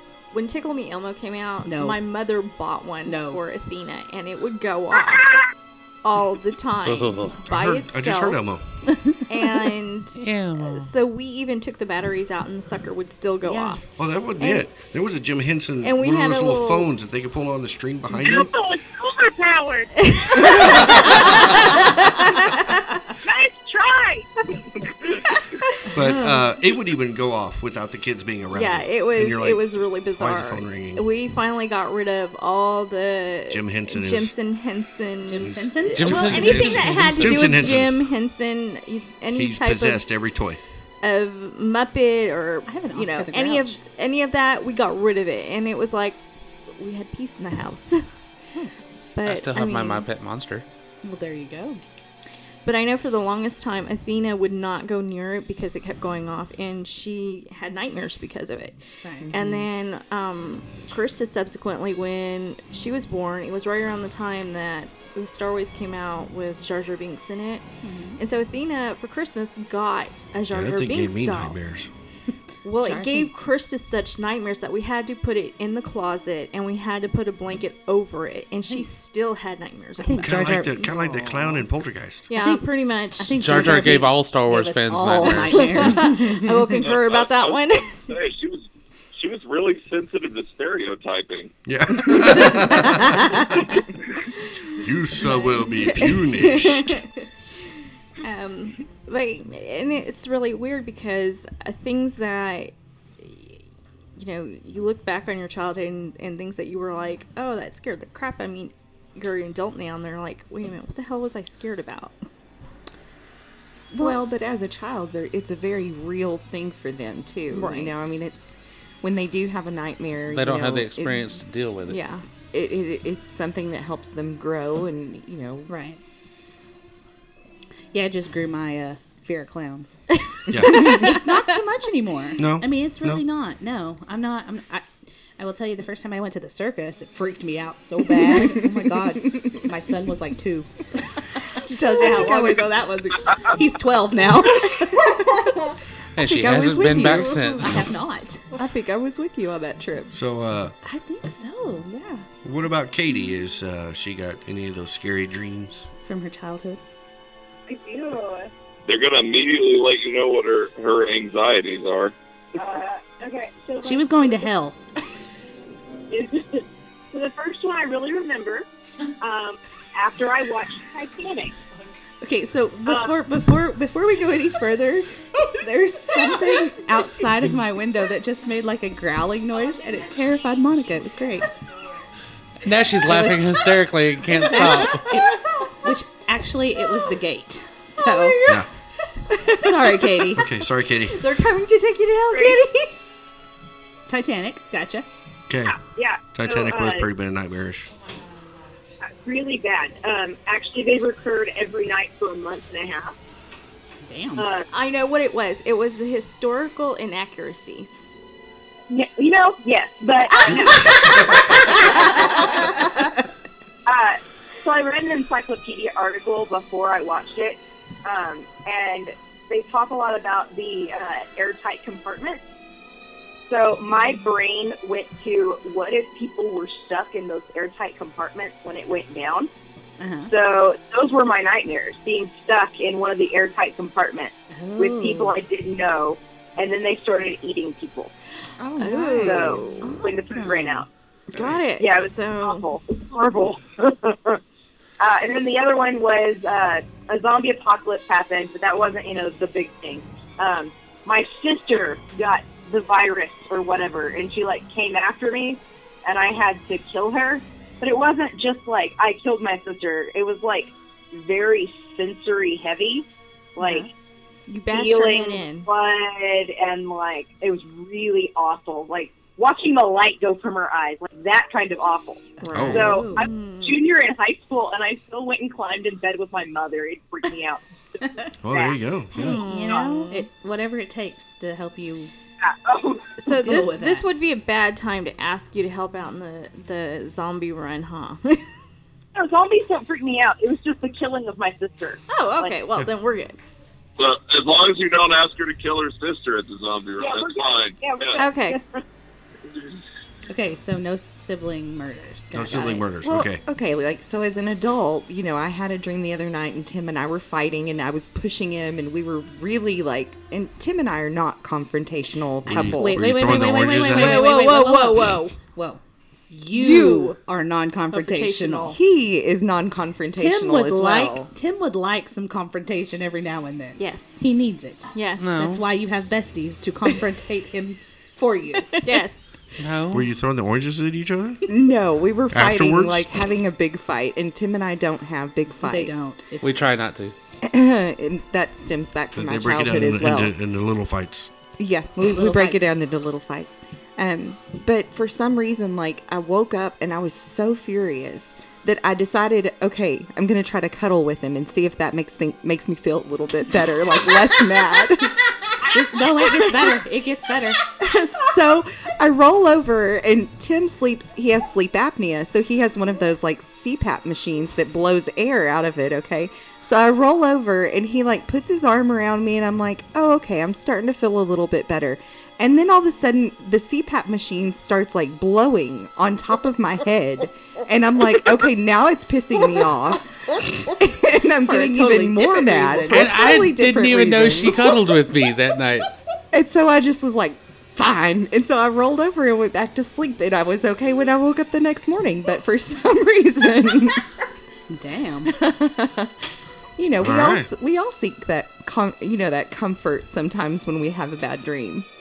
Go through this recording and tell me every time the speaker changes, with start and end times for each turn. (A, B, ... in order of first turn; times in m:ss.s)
0:00.3-0:05.4 A
0:01.6-0:02.0 B
0:03.0-0:03.4 B
0:06.0-0:08.4 A
0:06.8-0:07.4 C
0:07.4-0:08.6 D
0:09.3-0:13.8 A
0:10.2-0:10.9 C
0:13.4-0:13.8 B
0:14.0-0:18.5 D
0:14.4-0:14.6 A
0:15.8-0:16.9 A
0:18.1-0:19.9 E
0:20.0-0:22.0 A
0:20.4-0:21.4 E
0:20.6-0:21.5 D
0:23.2-0:24.3 E
0:25.9-0:31.0 D
0:26.0-0:26.5 A
0:28.5-0:40.0 A
0:33.5-0:34.3 D
0:35.2-0:37.0 B
0:35.4-0:37.9 D
0:35.9-0:37.6 C
0:39.3-0:40.6 D
0:41.0-0:46.2 A
0:42.6-0:43.8 B
0:46.8-0:48.0 A
0:49.1-0:50.1 A
0:49.2-0:50.6 C
0:51.0-0:51.8 B
0:52.6-1:11.6 A
0:59.0-0:59.6 B
1:07.8-1:08.2 B
1:10.5-1:11.9 D
1:12.6-1:20.9 A
1:12.8-1:13.3 B
1:20.0-1:21.6 B
1:20.2-1:22.3 D
1:22.3-1:23.9 A
1:22.3-1:26.4 B
1:23.4-1:26.1 C
1:25.5-1:27.9 A
1:26.8-1:28.6 F
1:29.2-1:31.5 F
1:31.6-1:33.7 D
1:34.8-1:37.0 D
1:35.3-1:37.2 A
1:38.2-1:43.6 A
1:44.2-1:52.2 A
1:54.0-2:01.4 G
1:57.5-1:58.2 A
2:00.3-2:02.0 C
2:01.8-2:02.2 A
2:02.5-2:05.7 G
2:05.7-2:06.0 B
2:07.9-2:10.0 B
2:10.3-2:11.2 A
2:10.5-2:11.1 D
2:10.6-2:20.7 B
2:12.4-2:13.2 D
2:18.2-2:18.6 G
2:21.6-2:25.1 B
2:21.6-2:23.3 G
2:24.8-2:25.6 G
2:26.2-2:28.0 C
2:26.2-2:27.9 G
2:27.0-2:28.5 B
2:28.5-2:30.1 G
2:30.1-2:30.7 D
2:30.8-2:32.3 B
2:32.4-2:35.9 D
2:36.0-2:36.8 B
2:37.7-2:38.5 E
2:38.8-2:42.1 F
2:42.5-2:44.5 E
2:43.8-2:44.8 B
2:46.1-2:48.6 E
2:49.2-2:51.5 E
2:52.2-3:01.6 B
2:52.9-2:53.1 E
3:02.6-3:05.2 C
3:03.0-3:03.7 B
3:04.4-3:08.5 B
3:08.0-3:09.3 A
3:09.6-3:10.4 B
3:10.3-3:11.2 D
3:11.0-3:12.9 A
3:12.3-3:12.6 E
3:14.1-3:15.0 B
3:15.5-3:15.8 D
3:15.6-3:17.1 E
3:16.3-3:17.9 D
3:19.0-3:23.2 E
3:24.0-3:24.5 B
3:24.4-3:24.7 E
3:24.7-3:28.0 A
3:28.9-3:32.6 E
3:33.8-3:42.4 E
3:43.5-3:49.5 E
3:50.0-3:50.3 B
3:50.3-3:58.1 E
3:54.5-3:55.4 B
3:58.6-4:00.3 G
3:58.8-4:00.0 A
3:59.2-4:00.9 E
3:59.8-4:00.8 B
4:01.3-4:02.7 A
4:01.8-4:04.4 E
4:05.0-4:23.0 E
4:23.6-4:23.9 E
4:23.6-4:23.8 A
4:24.5-4:25.7 A
4:24.7-4:37.6 E
4:32.4-4:33.3 B
4:32.5-4:33.0 D
4:33.1-4:33.8 A
4:38.4-4:39.4 D
4:38.5-4:38.8 E
4:39.1-4:40.3 A
4:39.2-4:42.1 B
4:42.4-4:43.2 E
4:43.2-4:48.4 A
4:43.2-4:44.1 B
4:49.1-4:52.6 E
4:52.1-4:53.4 A
4:54.0-4:58.2 F
4:57.0-4:58.8 E
4:58.1-4:58.6 A
5:00.3-5:02.9 B
5:02.3-5:03.4 D
5:03.0-5:13.1 G
5:12.5-5:14.4 D
5:12.5-5:18.8 B
5:13.6-5:15.4 A
5:16.5-5:17.2 A
5:17.9-5:18.8 A
5:18.7-5:21.3 G
5:20.2-5:28.8 B
5:23.8-5:24.2 A
5:24.9-5:25.4 A
5:25.2-5:25.6 C
5:28.8-5:29.3 A
5:29.6-5:30.1 C
5:29.9-5:31.5 D
5:31.5-5:36.2 G
5:32.3-5:33.1 D
5:35.6-5:36.5 B
5:36.4-5:37.1 C
5:37.4-5:40.3 G
5:39.2-5:41.3 D
5:41.6-5:55.3 G
5:42.0-5:42.8 B
5:55.7-5:57.6 B
5:56.2-5:56.6 G
5:57.7-6:24.9 G
6:21.4-6:23.2 B
6:22.9-6:25.9 C
6:26.3-6:34.0 G
6:34.7-6:35.4 B
6:35.3-6:36.1 G
6:36.8-6:41.9 G
6:37.0-6:37.5 D